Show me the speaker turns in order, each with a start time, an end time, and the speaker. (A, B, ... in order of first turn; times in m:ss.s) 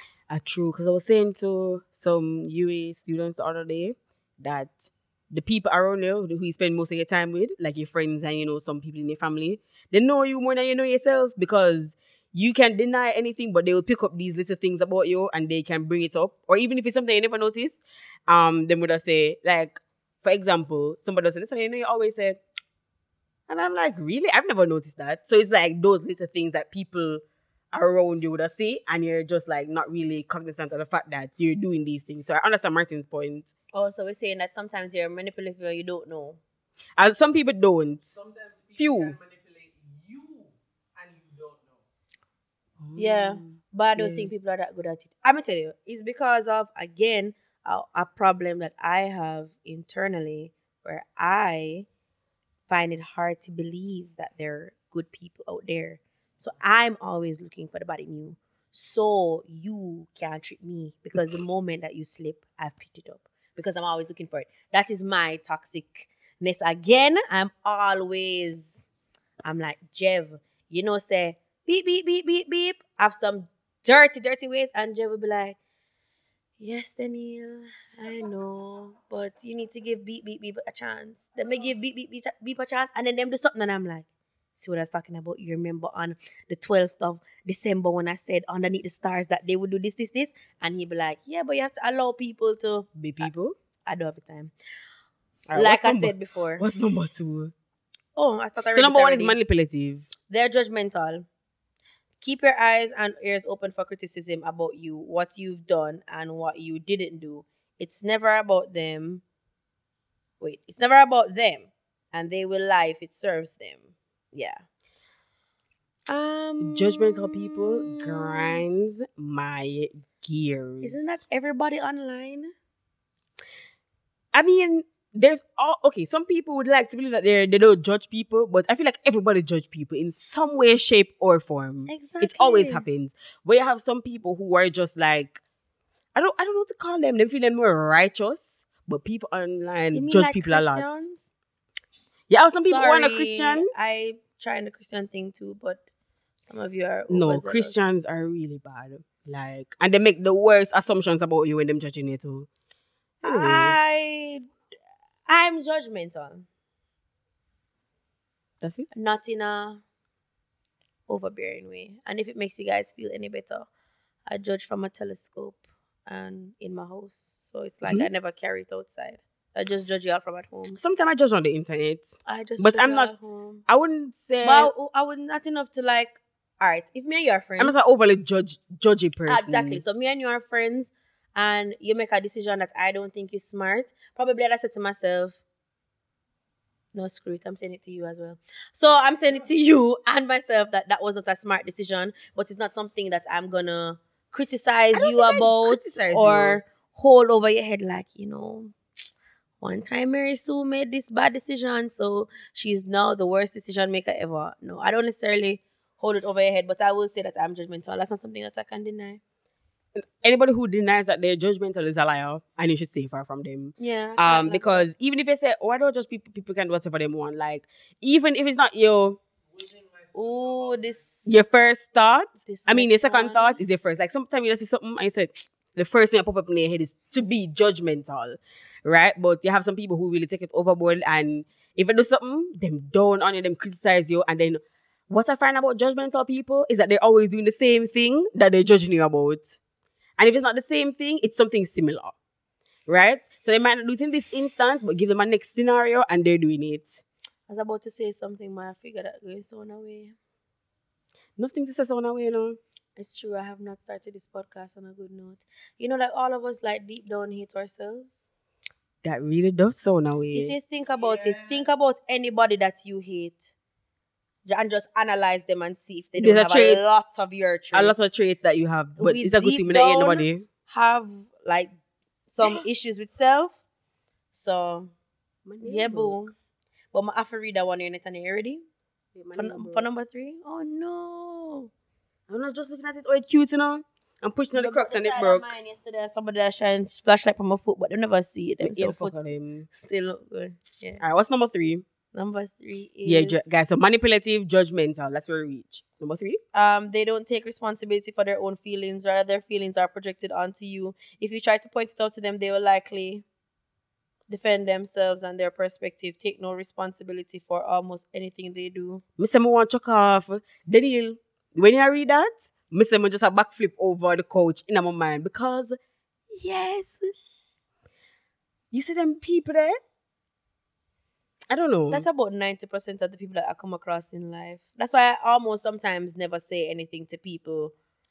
0:00.3-0:22.4 A
0:23.5-0:33.5 A
0:33.7-0:36.4 B
0:37.0-0:38.1 A
0:38.1-0:41.8 C
0:38.8-0:39.2 A
0:42.8-0:44.3 A
0:43.0-0:51.9 B
0:52.7-1:08.9 B
1:09.4-1:15.6 B
1:16.6-1:32.9 B
1:33.0-1:33.5 A
1:33.9-1:34.5 B
1:35.5-1:37.5 A
1:35.5-1:36.6 B
1:38.2-1:39.4 B
1:38.7-1:40.1 A
1:40.3-1:41.2 B
1:42.2-1:49.2 B
1:50.4-1:54.6 B
1:56.1-1:58.6 B
1:56.6-2:01.2 A
2:00.8-2:02.5 B
2:04.3-2:15.4 A
2:11.9-2:12.9 B
2:16.1-2:21.0 A
2:19.9-2:21.3 B
2:22.3-2:23.7 A
2:22.4-2:25.8 B
2:26.4-2:28.0 B
2:27.1-2:32.5 A
2:33.2-2:34.5 B
2:33.2-2:33.8 A
2:35.3-2:36.5 B
2:38.6-2:38.9 A
2:38.9-2:39.8 B
2:41.1-2:43.7 B
2:44.3-2:50.8 B
2:50.8-2:53.1 A
2:52.2-2:53.6 B
2:53.7-2:54.7 A
2:54.4-2:57.9 B
2:57.6-2:59.8 A
2:59.3-3:05.4 B
3:06.9-3:18.7 B
3:14.9-3:16.6 A
3:19.6-3:29.2 B
3:30.0-3:39.2 A
3:33.8-3:34.9 B
3:39.5-3:41.0 C
3:40.1-3:41.4 B
3:41.3-3:59.6 A
3:42.4-3:43.6 B
4:00.2-4:02.2 A
4:02.9-4:07.0 A
4:07.5-4:10.1 B
4:11.4-4:12.6 A
4:13.0-4:18.3 B
4:19.0-4:20.5 A
4:20.3-4:23.5 B
4:24.4-4:28.1 B
4:26.2-4:26.8 A
4:27.7-4:30.4 A
4:29.0-4:31.7 B
4:32.3-4:33.6 B
4:34.3-4:34.9 B
4:35.4-4:36.2 A
4:35.6-4:36.3 B
4:36.9-4:38.6 B
4:39.1-4:39.9 A
4:39.3-4:41.7 B
4:42.3-4:45.5 A
4:44.5-4:51.0 B
4:48.6-4:49.7 A
4:51.0-4:51.8 A
4:52.1-4:53.5 B
4:53.0-4:56.4 A
4:56.5-5:03.2 B
5:04.3-5:09.0 B
5:09.2-5:15.8 A
5:16.3-5:17.1 A
5:18.7-5:19.8 A
5:21.5-5:22.1 A
5:21.9-5:27.7 B